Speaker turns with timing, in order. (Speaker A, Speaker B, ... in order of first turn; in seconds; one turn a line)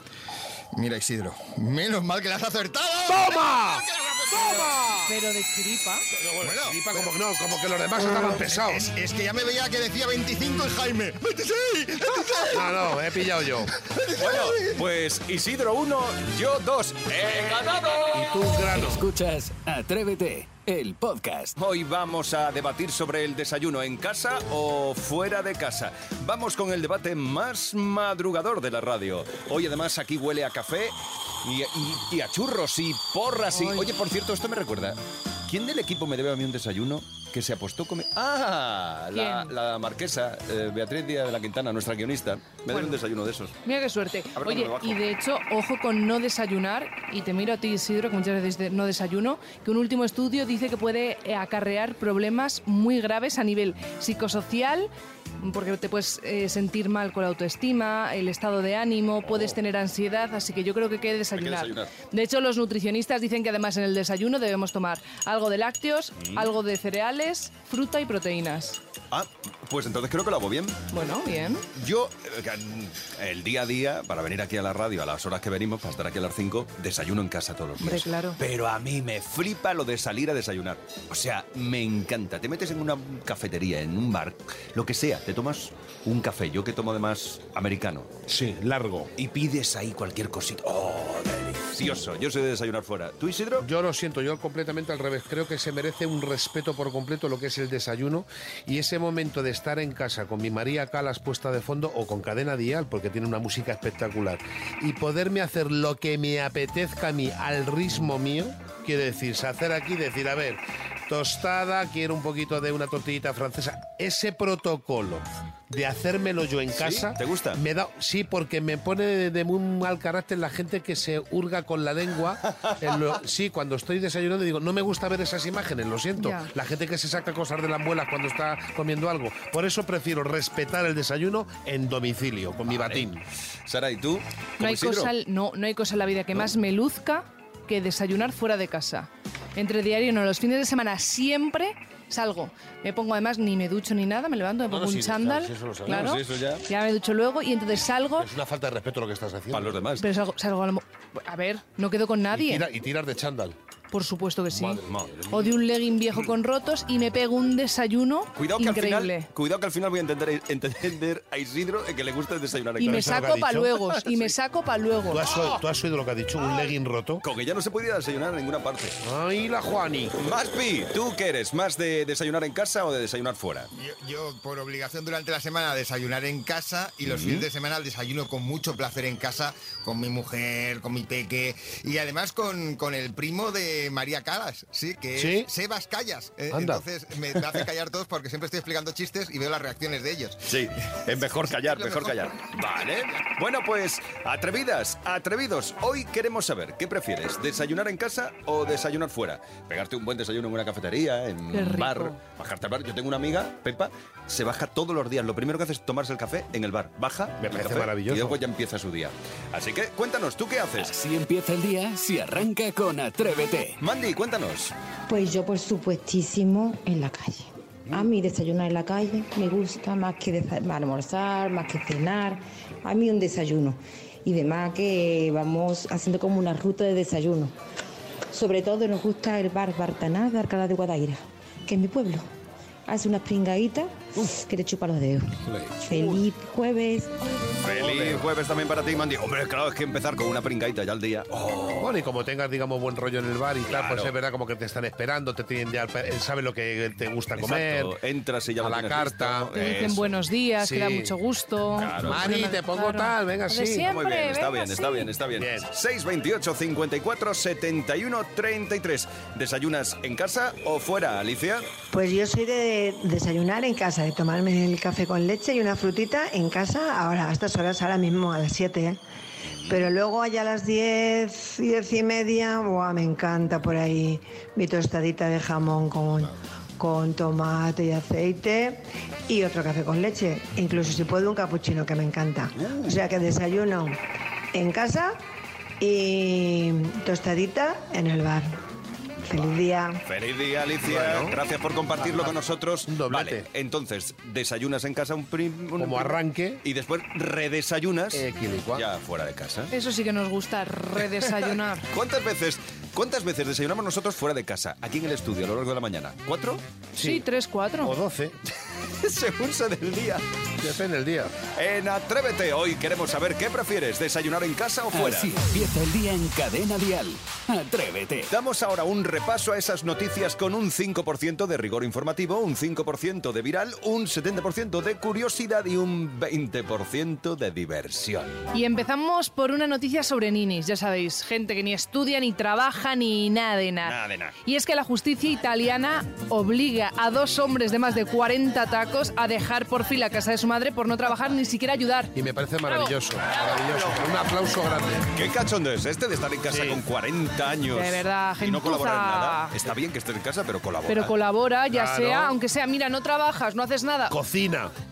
Speaker A: 0.7-4.7
Speaker B: 3.1-5.1
Speaker C: 5.1-6.0
Speaker B: 6.1-8.9
Speaker A: 6.4-7.1
Speaker A: 8.0-12.9
Speaker B: 12.5-13.7
Speaker A: 13.8-14.7
Speaker D: 14.2-18.1
Speaker B: 18.1-19.0
Speaker E: 18.8-21.5
Speaker D: 21.6-43.5
Speaker C: 33.5-33.9
Speaker C: 39.1-39.5
Speaker C: 42.7-43.0
Speaker C: 43.6-68.8
Speaker D: 44.4-45.0
Speaker D: 61.3-61.9
Speaker D: 66.2-66.5
Speaker D: 69.1-70.8
Speaker C: 70.9-71.6
Speaker D: 71.7-88.1
Speaker C: 77.8-78.4
Speaker B: 88.3-89.1
Speaker D: 89.2-93.7
Speaker B: 93.6-133.2
Speaker D: 116.7-117.6
Speaker C: 126.2-126.5
Speaker D: 132.7-133.1
Speaker D: 133.7-135.1
Speaker C: 134.6-148.3
Speaker B: 144.7-146.1
Speaker D: 145.9-146.6
Speaker B: 148.2-149.8
Speaker D: 149.5-150.1
Speaker C: 150.0-152.7
Speaker B: 152.3-153.6
Speaker C: 153.9-159.3
Speaker B: 154.5-155.6
Speaker D: 154.8-155.2
Speaker D: 158.3-163.1
Speaker B: 162.8-163.7
Speaker C: 162.8-165.3
Speaker D: 164.1-164.3
Speaker B: 165.1-167.2
Speaker D: 167.2-169.0
Speaker B: 169.0-170.2
Speaker D: 170.2-173.7
Speaker A: 173.7-192.5
Speaker D: 177.0-177.5
Speaker B: 185.2-185.5
Speaker B: 186.5-186.8
Speaker D: 190.5-210.9
Speaker C: 201.5-202.2
Speaker B: 207.4-208.4
Speaker E: 210.8-213.8
Speaker D: 213.8-214.7
Speaker F: 215.1-227.5
Speaker F: 228.3-232.3
Speaker F: 232.9-237.1
Speaker B: 235.5-235.7
Speaker D: 235.9-236.2
Speaker D: 237.6-241.9
Speaker B: 237.8-238.2
Speaker B: 241.8-247.9
Speaker D: 243.7-244.1
Speaker D: 247.4-250.1
Speaker B: 248.6-249.5
Speaker C: 249.5-255.1
Speaker B: 250.6-251.2
Speaker D: 251.8-252.2
Speaker B: 252.0-253.9
Speaker D: 253.9-261.7
Speaker B: 255.3-255.7
Speaker G: 261.9-269.0
Speaker G: 269.7-276.3
Speaker G: 276.8-283.9
Speaker D: 282.6-283.0
Speaker G: 284.5-285.1
Speaker G: 285.8-288.5
Speaker G: 289.3-289.9
Speaker D: 290.0-299.7
Speaker B: 290.8-291.4
Speaker B: 291.9-293.5
Speaker B: 295.8-296.6
Speaker B: 298.1-298.9
Speaker C: 299.7-301.9
Speaker D: 301.9-306.6
Speaker B: 306.9-307.2
Speaker C: 307.0-307.9
Speaker B: 307.8-308.4
Speaker D: 308.9-310.2
Speaker B: 310.6-311.4
Speaker D: 311.5-315.4
Speaker E: 314.9-318.3
Speaker D: 318.3-328.4
Speaker C: 328.5-342.1
Speaker D: 333.8-334.3
Speaker B: 342.1-345.2
Speaker C: 342.7-342.9
Speaker D: 343.5-344.0
Speaker D: 345.1-351.1
Speaker B: 346.5-346.8
Speaker C: 347.7-349.5
Speaker C: 350.9-354.1
Speaker B: 351.7-352.4
Speaker B: 354.1-354.7